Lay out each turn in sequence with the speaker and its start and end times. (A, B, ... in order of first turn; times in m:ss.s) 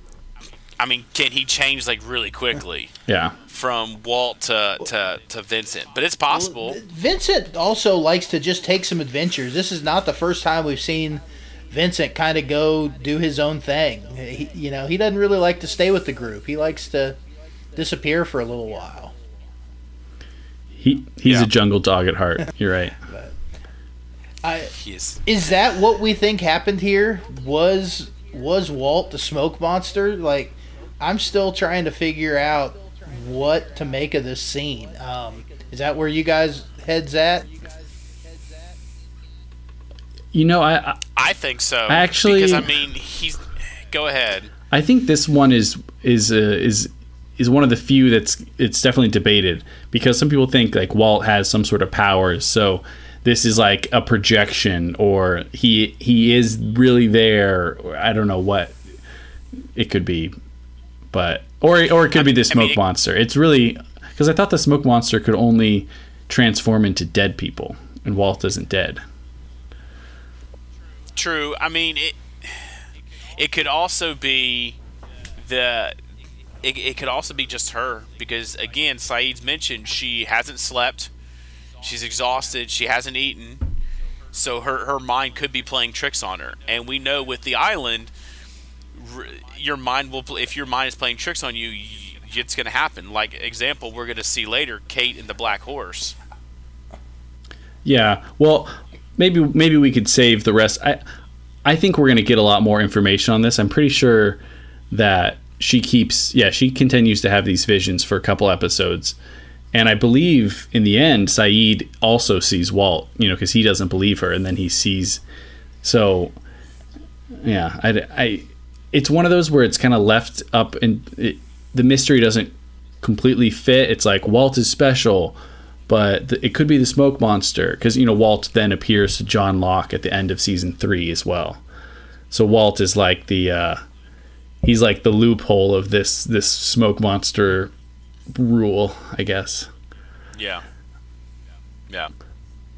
0:00.8-0:02.9 A
0:03.1-0:03.4 B
0:03.5-0:06.8 A
0:06.3-0:17.2 C
0:17.8-0:19.2 C
0:20.8-0:23.0 B
0:23.1-0:23.4 C
0:24.4-0:24.7 C
0:24.8-0:25.2 A
0:25.2-0:37.5 C
0:40.3-0:41.0 B
0:41.2-0:44.5 A
0:41.9-0:42.7 B
0:44.7-0:58.8 B
0:59.8-1:00.3 B
1:01.1-1:09.0 B
1:02.2-1:02.8 A
1:11.2-1:12.8 A
1:13.4-1:14.8 A
1:15.4-1:16.0 A
1:16.6-1:21.1 A
1:21.8-1:23.7 A
1:24.3-1:28.1 A
1:28.9-1:36.2 A
1:37.8-1:41.0 B
1:41.7-1:44.4 B
1:44.9-1:49.2 B
1:49.7-1:55.2 B
1:55.8-1:56.3 B
1:57.4-2:05.4 B
2:05.9-2:11.6 B
2:12.3-2:13.8 B
2:14.6-2:17.7 B
2:18.3-2:19.7 B
2:20.4-2:20.6 A